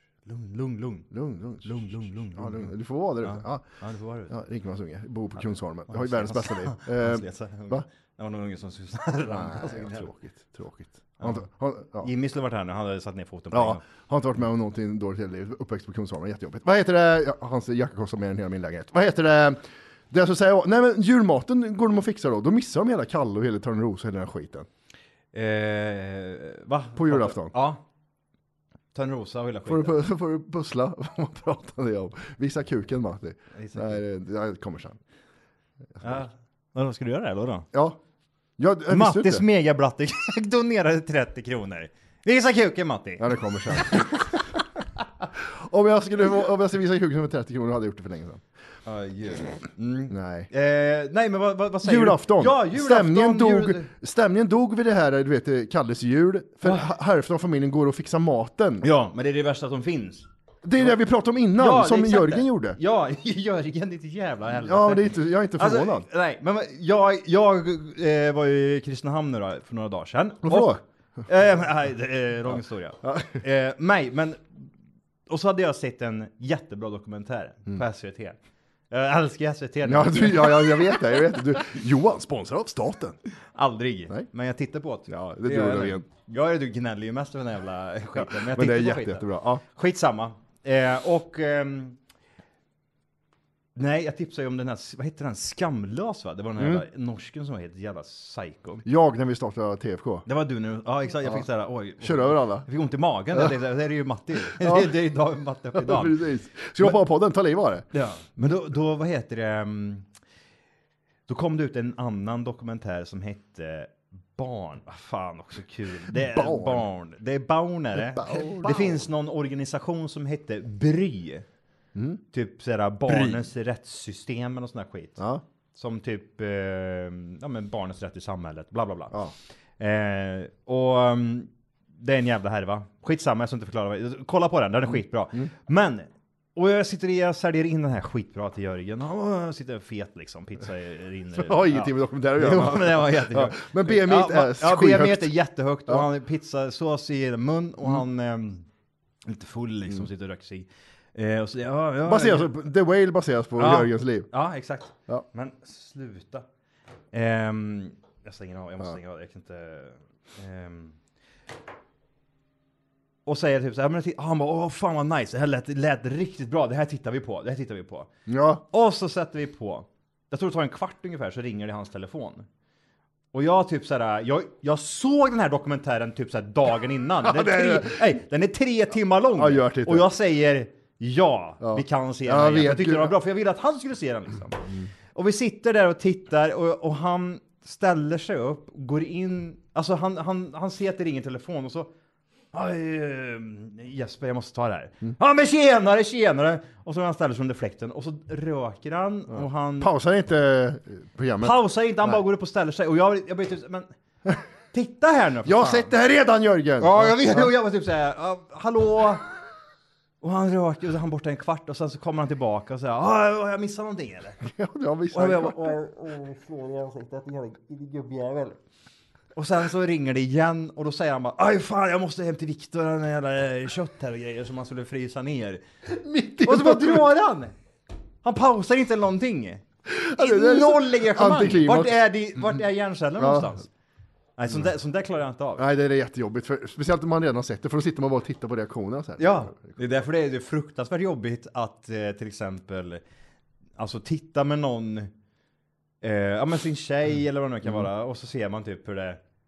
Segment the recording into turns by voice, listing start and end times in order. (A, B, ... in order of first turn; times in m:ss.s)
0:00.3-0:01.1 A
0:01.1-0:03.6 B
0:01.6-0:04.4 A
0:04.3-0:07.8 B
0:05.4-0:10.1 A
0:09.3-0:12.1 B
0:11.2-0:11.4 A
0:12.0-0:13.8 A
0:13.5-0:24.7 B
0:25.3-0:27.8 A
0:27.0-0:27.6 B
0:28.9-0:30.0 A
0:29.7-0:35.0 B
0:33.6-0:34.0 A
0:36.0-0:37.7 A
0:37.7-0:38.0 B
0:38.6-0:39.4 B
0:38.9-0:44.2 A
0:43.2-0:44.2 B
0:45.4-0:48.4 B
0:48.9-0:53.9 A
0:50.1-0:50.5 B
0:51.8-0:58.9 B
0:56.6-0:56.9 A
0:58.8-1:00.3 A
1:00.6-1:02.8 B
1:01.6-1:14.7 A
1:04.6-1:06.1 B
1:10.4-1:10.8 B
1:13.0-1:13.4 B
1:15.3-1:18.4 A
1:18.9-1:21.0 A
1:19.8-1:23.2 B
1:23.6-1:32.0 A
1:25.1-1:26.0 B
1:28.2-1:29.6 B
1:33.8-1:38.8 A
1:36.6-1:36.8 B
1:38.9-1:40.2 B
1:40.3-1:46.2 A
1:42.0-1:42.7 B
1:44.6-1:45.0 B
1:45.8-1:47.9 B
1:47.9-1:50.1 A
1:51.3-2:01.4 A
1:56.2-1:56.9 B
1:58.0-1:59.0 B
2:02.0-2:02.2 B
2:02.3-2:05.2 A
2:03.1-2:03.4 B
2:05.2-2:05.4 B
2:05.8-2:09.2 A
2:09.8-2:28.7 A
2:21.4-2:25.3 B
2:29.2-2:32.5 A
2:32.0-2:34.3 B
2:33.6-2:36.5 A
2:37.1-2:41.0 A
2:43.3-2:48.1 A
2:48.3-2:48.6 B
2:48.7-2:52.5 A
2:53.3-3:04.6 A
2:57.2-2:58.1 B
2:59.4-3:00.1 B
3:01.6-3:03.2 B
3:05.2-3:11.9 A
3:12.5-3:19.9 A
3:19.4-3:22.2 B
3:21.4-3:23.9 A
3:24.7-3:25.9 A
3:25.4-3:27.5 B
3:26.8-3:29.2 A
3:30.2-3:34.4 A
3:34.4-3:35.7 B
3:35.1-3:38.6 A
3:39.4-3:45.6 A
3:45.9-3:47.1 B
3:46.4-3:47.5 A
3:48.2-3:49.6 A
3:49.9-3:52.5 B
3:50.2-3:53.7 A
3:53.2-3:53.5 B
3:54.4-3:55.7 A
3:55.6-3:59.8 B
3:59.2-4:03.0 A
4:03.8-4:05.1 A
4:06.0-4:09.2 A